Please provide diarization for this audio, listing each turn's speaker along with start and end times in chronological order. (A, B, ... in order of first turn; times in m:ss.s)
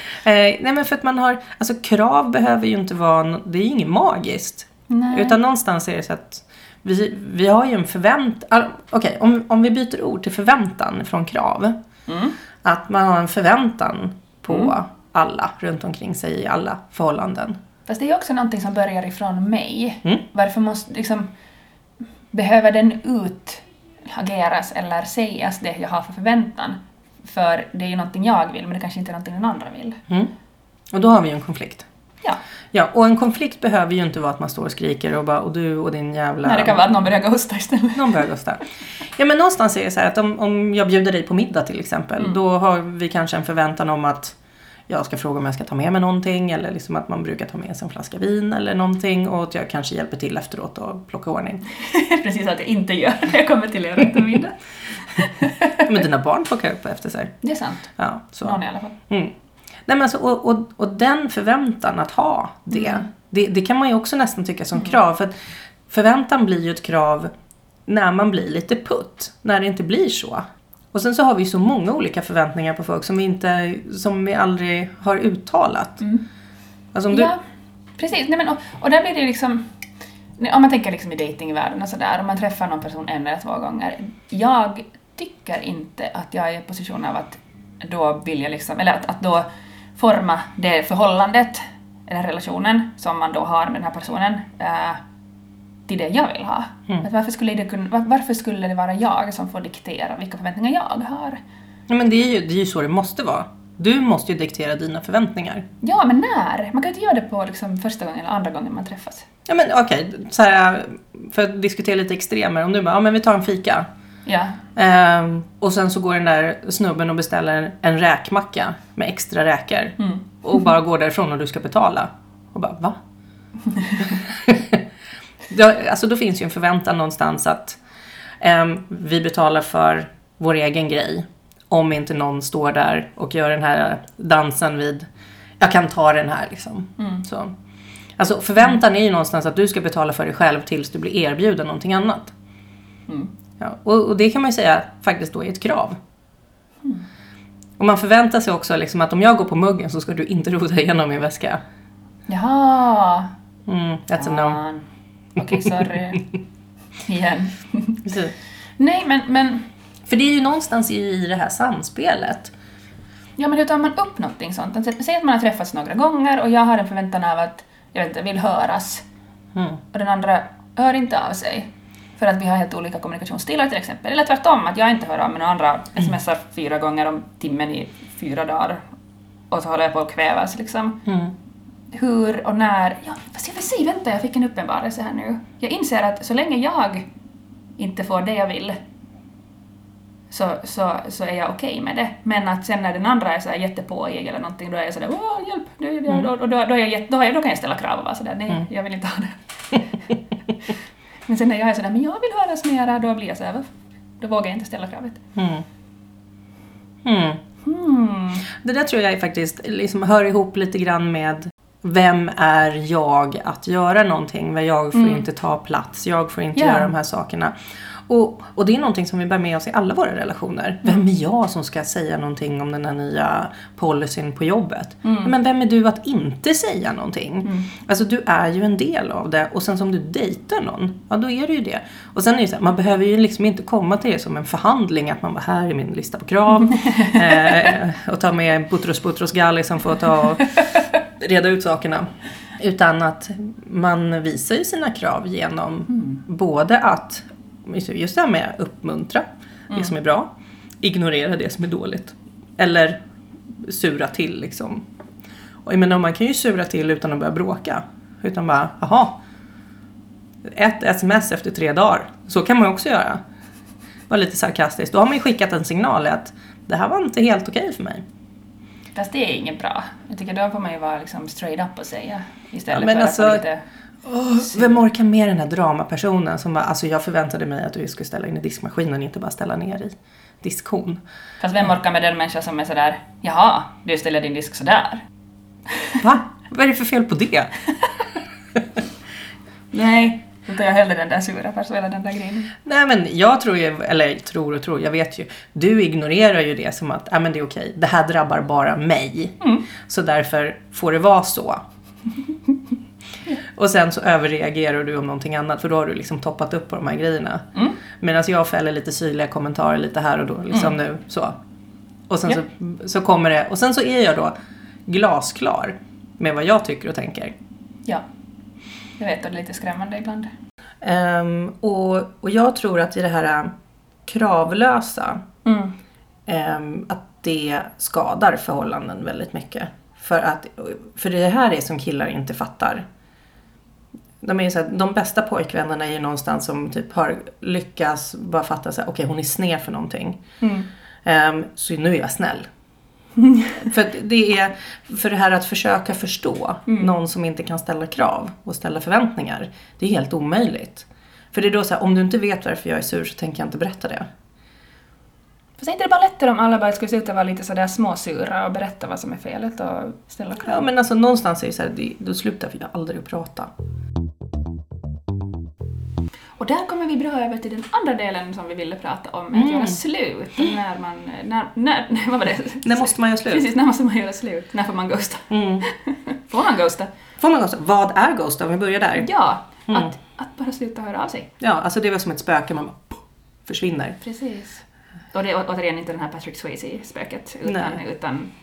0:00.2-0:11.8 A
0:04.9-0:05.4 B
0:12.1-0:12.4 B
0:12.6-0:17.6 A
0:14.5-0:14.7 B
0:17.9-0:21.3 B
0:22.3-0:30.0 B
0:30.9-0:31.8 A
0:32.7-0:36.8 A
0:36.4-0:38.3 B
0:37.9-0:44.4 A
0:44.9-0:51.6 A
0:51.7-0:55.9 B
0:55.8-0:57.3 A
0:57.4-0:59.0 B
0:58.0-0:59.3 A
0:59.9-1:07.3 A
1:02.7-1:03.0 B
1:07.9-1:16.0 A
1:16.0-1:16.2 B
1:16.9-1:17.3 A
1:17.1-1:17.4 B
1:18.0-1:19.7 B
1:20.4-1:35.0 B
1:35.9-1:41.4 B
1:41.9-1:45.6 A
1:45.8-1:49.2 B
1:49.4-1:53.9 A
1:54.2-1:54.6 B
1:54.8-2:03.0 A
2:00.0-2:00.2 B
2:03.7-2:04.1 B
2:04.0-2:04.8 A
2:05.5-2:07.8 A
2:08.4-2:15.1 A
2:15.6-2:17.5 A
2:17.0-2:17.2 B
2:18.2-2:22.3 A
2:23.6-2:26.0 A
2:27.8-2:31.6 A
2:32.3-2:33.3 B
2:33.6-2:34.6 A
2:34.2-2:36.2 B
2:35.5-2:35.8 A
2:37.0-2:38.0 B
2:38.0-2:38.3 A
2:38.8-2:39.7 B
2:40.0-2:42.5 A
2:43.4-2:49.0 B
2:49.5-2:49.8 A
2:49.9-2:58.8 B
2:59.5-3:01.0 B
3:01.0-3:01.3 A
3:01.9-3:07.1 B
3:07.8-3:08.8 B
3:10.3-3:20.0 B
3:21.2-3:25.2 B
3:25.4-3:25.6 A
3:27.0-3:27.4 A
3:27.6-3:28.4 B
3:28.5-4:10.3 A
3:34.9-3:35.2 B
3:36.5-3:36.9 B
3:45.0-3:45.3 B
3:47.4-3:47.7 B
3:56.7-3:57.2 B
4:05.9-4:06.2 B
4:10.8-4:13.0 A
4:13.5-4:14.8 A
4:15.6-4:19.2 A
4:20.4-4:23.2 A
4:24.1-4:28.0 A
4:28.9-4:33.6 B
4:32.7-4:33.4 A
4:34.0-4:41.0 A
4:34.5-4:34.8 B
4:41.4-4:45.0 B
4:45.7-4:46.0 B
4:46.0-4:47.5 A
4:49.7-4:52.6 B
4:52.6-5:01.6 A
4:59.4-4:59.6 B
5:03.4-5:11.4 A
5:12.1-5:14.3 A
5:14.9-5:17.3 A
5:19.0-5:20.3 B
5:20.8-5:23.5 A
5:24.0-5:25.2 A
5:25.4-5:25.7 B
5:26.3-5:32.8 A
5:34.2-5:40.2 A
5:40.4-5:40.7 B
5:41.0-5:42.4 A
5:43.2-5:43.6 B
5:43.6-5:54.0 A
5:46.7-5:46.9 B
5:55.6-6:00.6 B
6:00.4-6:03.5 A
6:06.4-6:16.9 B
6:09.3-6:09.8 A
6:12.6-6:13.5 A
6:15.3-6:15.6 A
6:17.2-6:19.1 A
6:19.0-6:21.3 B
6:19.7-6:19.9 A
6:21.4-6:24.0 A
6:24.0-6:28.3 B
6:27.4-6:27.8 A